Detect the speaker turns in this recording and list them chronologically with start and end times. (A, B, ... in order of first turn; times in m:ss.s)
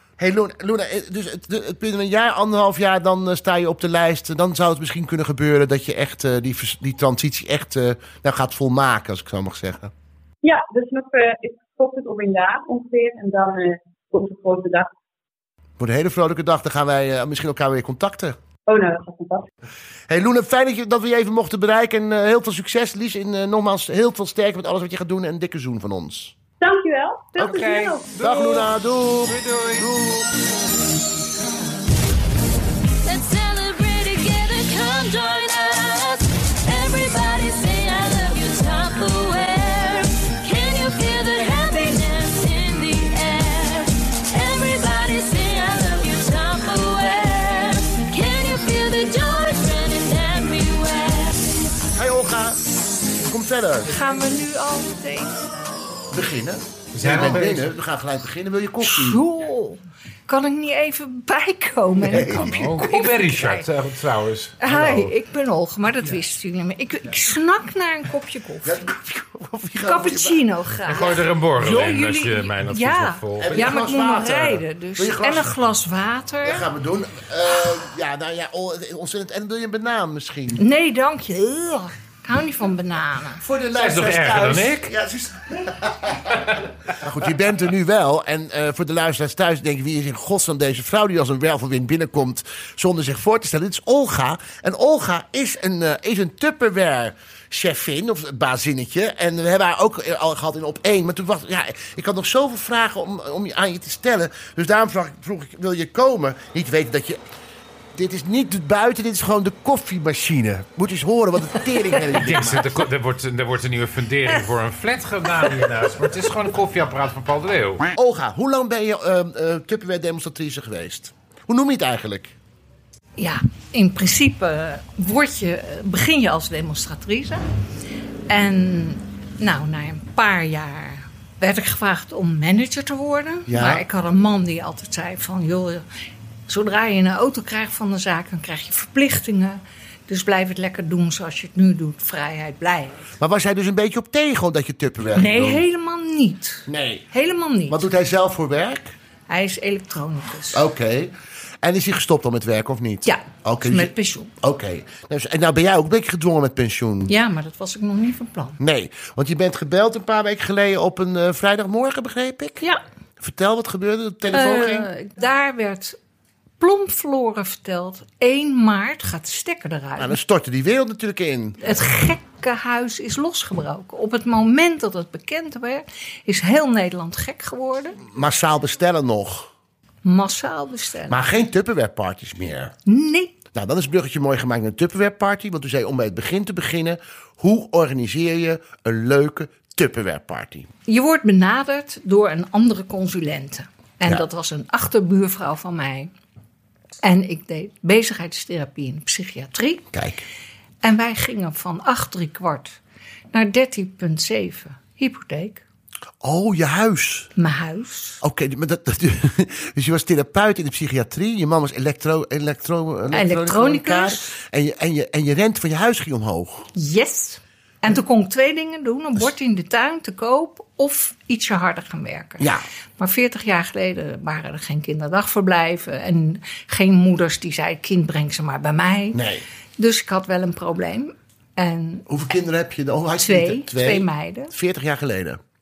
0:00.2-0:09.9 A
0:10.4-0:14.9 B
0:15.8-0:18.4 A
0:18.7-0:19.5 B
0:20.1-0:26.3 A
0:26.6-0:28.2 B
0:27.4-0:28.7 C
0:28.2-0:30.3 A
0:29.3-0:29.9 C
0:33.0-0:51.4 D
0:51.9-0:52.6 A
0:53.2-0:54.0 A
0:53.8-0:55.5 E
0:56.1-0:59.2 A
0:56.9-0:57.7 C
0:58.8-1:03.7 E
1:02.0-1:02.6 A
1:02.1-1:05.1 C
1:04.6-1:08.8 E
1:08.6-1:10.4 A
1:09.8-1:16.7 E
1:10.8-1:13.7 C
1:13.4-1:15.5 A
1:16.4-1:20.6 A
1:20.5-1:23.4 E
1:23.4-1:47.2 A
1:23.7-1:24.9 C
1:47.9-1:52.7 A
1:52.1-1:57.9 C
1:55.4-1:55.7 E
1:57.9-2:02.3 A
2:03.2-2:07.4 E
2:08.3-2:15.8 E
2:13.5-2:13.8 A
2:16.5-2:23.1 E
2:23.2-2:25.6 A
2:25.1-2:27.8 E
2:26.7-2:27.0 A
2:27.7-2:28.9 A
2:29.3-2:30.6 E
2:30.5-2:31.1 A
2:31.6-2:37.1 A
2:33.0-2:34.3 E
2:37.1-2:38.6 E
2:38.6-2:42.6 A
2:43.2-2:44.9 A
2:44.3-2:46.0 E
2:46.6-2:50.2 E
2:50.0-2:51.6 A
2:51.6-2:58.0 E
2:58.0-2:59.5 A
3:00.0-3:01.2 E
3:01.1-3:02.7 A
3:02.8-3:03.4 E
3:03.5-3:10.7 A
3:10.8-3:16.1 E
3:17.0-3:19.9 E
3:19.9-3:20.2 A
3:20.8-3:22.8 E
3:23.3-3:25.6 E
3:26.2-3:27.3 A
3:27.4-3:28.2 E
3:28.2-3:36.7 A
3:33.1-3:34.3 E
3:36.7-3:49.2 E
3:49.1-3:49.4 A
3:49.8-3:52.1 E
3:52.1-3:55.4 A
3:53.2-3:54.5 E